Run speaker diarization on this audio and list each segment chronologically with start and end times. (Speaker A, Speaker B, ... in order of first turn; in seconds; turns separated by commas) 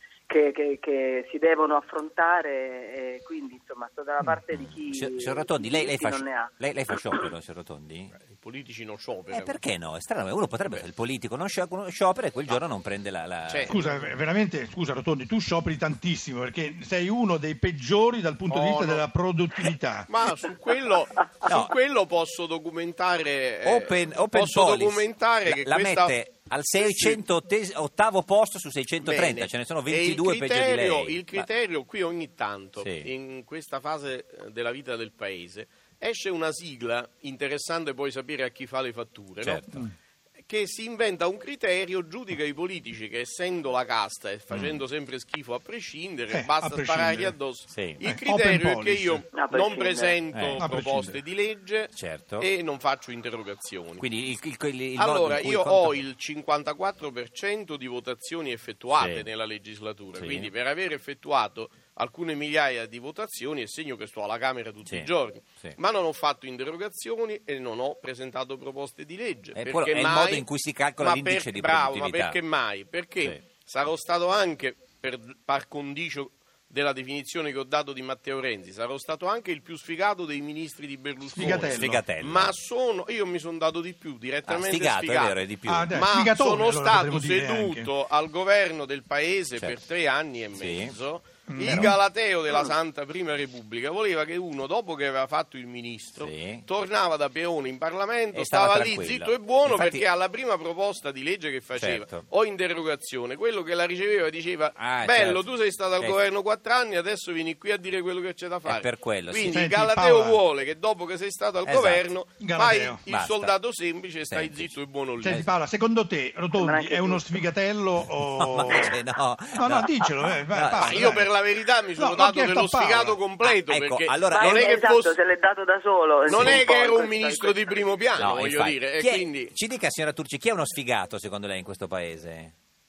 Speaker A: 0.3-6.6, Speaker B: 4.5-8.2, Speaker C: 8.2-9.6, Speaker B: 9.3-13.8, Speaker C: 13.5-14.1, Speaker D: 13.7-20.1, Speaker C: 18.5-19.1, Speaker C: 20.1-26.2, Speaker B: 21.5-21.8, Speaker B: 23.6-31.5, Speaker C: 26.7-27.2, Speaker C: 29.0-39.8, Speaker B: 32.8-33.1, Speaker B: 39.4-39.8, Speaker C: 40.4-54.1, Speaker B: 44.5-44.8, Speaker D: 46.3-47.4, Speaker B: 47.7-48.0, Speaker D: 48.0-49.2, Speaker A: 49.3-50.2, Speaker B: 50.3-50.6, Speaker D: 50.6-51.2, Speaker B: 51.9-52.5, Speaker B: 54.0-56.0, Speaker C: 55.0-70.5, Speaker B: 58.9-59.3, Speaker B: 60.2-60.5, Speaker B: 69.5-72.4, Speaker C: 71.0-85.4, Speaker D: 81.3-82.0, Speaker B: 81.4-82.5, Speaker B: 84.5-86.0, Speaker D: 85.7-87.9, Speaker C: 85.9-115.4, Speaker B: 89.6-89.8, Speaker B: 90.5-91.0, Speaker D: 91.5-92.0, Speaker B: 91.6-92.0, Speaker B: 96.2-96.7, Speaker B: 98.3-100.1, Speaker B: 101.8-102.2, Speaker B: 104.8-105.5, Speaker B: 108.7-109.5, Speaker D: 109.5-110.4, Speaker B: 111.6-112.1, Speaker D: 112.4-113.0, Speaker B: 113.1-113.5, Speaker B: 114.2-115.5, Speaker D: 115.2-119.0, Speaker A: 116.5-117.4, Speaker B: 118.4-121.2, Speaker D: 119.5-121.3, Speaker C: 120.8-125.2, Speaker D: 122.0-123.2, Speaker B: 123.4-124.8, Speaker A: 124.3-128.0, Speaker C: 126.3-129.5, Speaker B: 126.3-126.6, Speaker B: 128.2-132.5